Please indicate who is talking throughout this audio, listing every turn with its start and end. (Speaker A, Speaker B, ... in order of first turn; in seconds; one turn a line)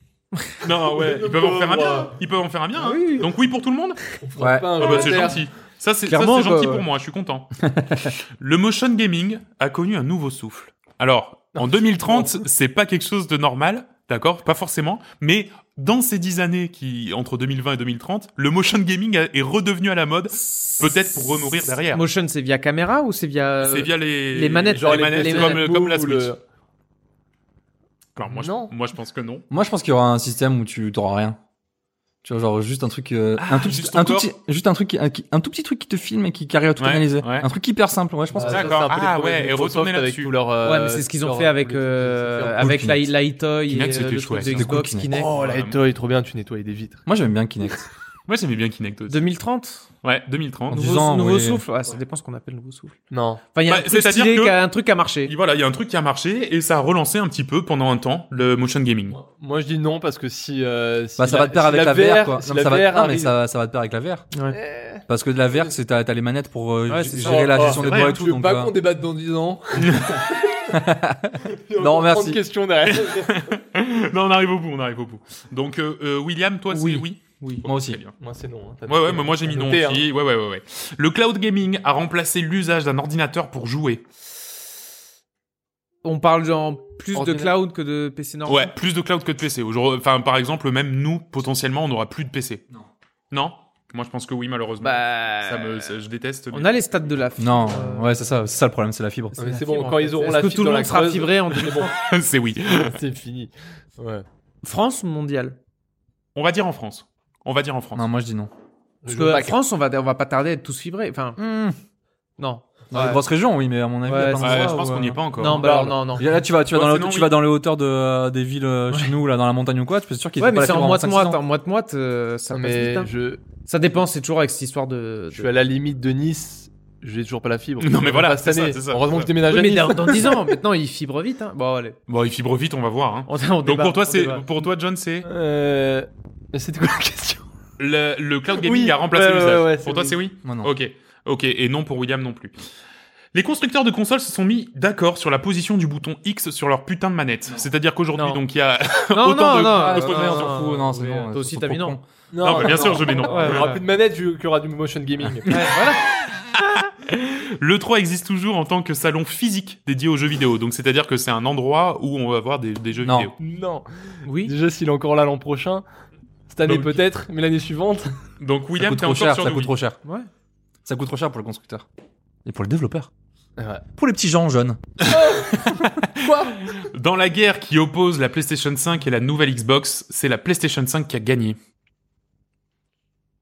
Speaker A: 0.6-4.0
Speaker B: 0.9-2.2
Speaker C: 2.8-3.3
Speaker B: 4.2-5.5
Speaker D: 4.4-5.0
Speaker A: 4.8-7.5
Speaker C: 6.1-6.9
Speaker D: 7.6-8.1
Speaker A: 8.4-22.0
Speaker B: 11.6-12.4
Speaker C: 20.7-25.6
Speaker A: 23.6-26.3
Speaker B: 24.7-26.4
Speaker A: 28.2-29.4
Speaker B: 28.3-28.7
Speaker D: 29.5-31.4
Speaker D: 32.2-38.8
Speaker A: 33.4-34.3
Speaker A: 36.8-37.5
Speaker B: 38.3-42.9
Speaker A: 38.5-40.4
Speaker C: 40.6-45.3
Speaker D: 42.6-43.1
Speaker A: 43.7-45.8
Speaker D: 44.5-45.1
Speaker B: 45.1-47.0
Speaker D: 47.1-47.9
Speaker A: 48.3-49.2
Speaker C: 49.1-49.9
Speaker A: 50.0-50.9
Speaker D: 50.7-51.6
Speaker C: 50.7-53.0
Speaker B: 53.1-53.4
Speaker C: 53.5-55.4
Speaker A: 53.7-54.6
Speaker A: 55.2-59.2
Speaker B: 59.1-63.3
Speaker D: 61.2-64.3
Speaker C: 64.3-64.6
Speaker B: 64.5-65.7
Speaker D: 65.1-68.7
Speaker C: 66.9-67.9
Speaker B: 67.2-70.8
Speaker A: 67.6-68.2
Speaker A: 69.8-70.3
Speaker D: 70.7-72.4
Speaker B: 71.4-73.5
Speaker A: 72.8-78.1
Speaker C: 76.7-77.7
Speaker D: 77.6-78.0
Speaker B: 78.2-80.1
Speaker A: 78.9-84.0
Speaker C: 86.0-88.7
Speaker B: 87.1-87.5
Speaker A: 88.5-92.6
Speaker A: 93.3-96.8
Speaker C: 94.8-96.0
Speaker C: 96.5-98.3
Speaker D: 97.4-99.4
Speaker B: 99.4-101.9
Speaker C: 99.4-102.0
Speaker A: 101.9-103.0
Speaker B: 102.7-104.2
Speaker C: 104.6-105.6
Speaker A: 106.3-108.0
Speaker D: 108.0-108.5
Speaker B: 109.0-109.6
Speaker C: 109.1-111.4
Speaker D: 111.4-111.8
Speaker C: 112.4-113.2
Speaker D: 112.9-114.9
Speaker C: 114.1-116.3
Speaker A: 114.4-116.0
Speaker B: 115.7-115.9
Speaker D: 116.1-121.4
Speaker A: 116.7-117.4
Speaker C: 120.4-125.5
Speaker B: 122.5-123.4
Speaker B: 125.3-130.5
Speaker A: 127.8-129.3
Speaker C: 129.5-132.0
Speaker A: 132.1-135.3
Speaker C: 133.3-134.5
Speaker B: 135.2-137.4
Speaker A: 137.8-142.6
Speaker B: 138.6-140.2
Speaker D: 140.4-140.7
Speaker A: 143.3-150.6
Speaker C: 148.2-148.4
Speaker C: 149.1-152.0
Speaker D: 149.8-152.0
Speaker B: 152.3-155.8
Speaker A: 152.4-153.8
Speaker C: 152.7-153.8
Speaker C: 155.5-156.0
Speaker C: 156.6-156.9
Speaker A: 157.0-163.3
Speaker D: 163.0-163.3
Speaker B: 163.4-165.8
Speaker C: 164.3-164.5
Speaker B: 166.5-168.2
Speaker A: 166.7-167.0
Speaker A: 168.4-169.7
Speaker D: 168.8-170.0
Speaker D: 170.8-171.9
Speaker D: 172.4-173.1
Speaker B: 173.6-173.8
Speaker D: 174.0-174.8
Speaker B: 175.1-176.6
Speaker A: 175.8-181.6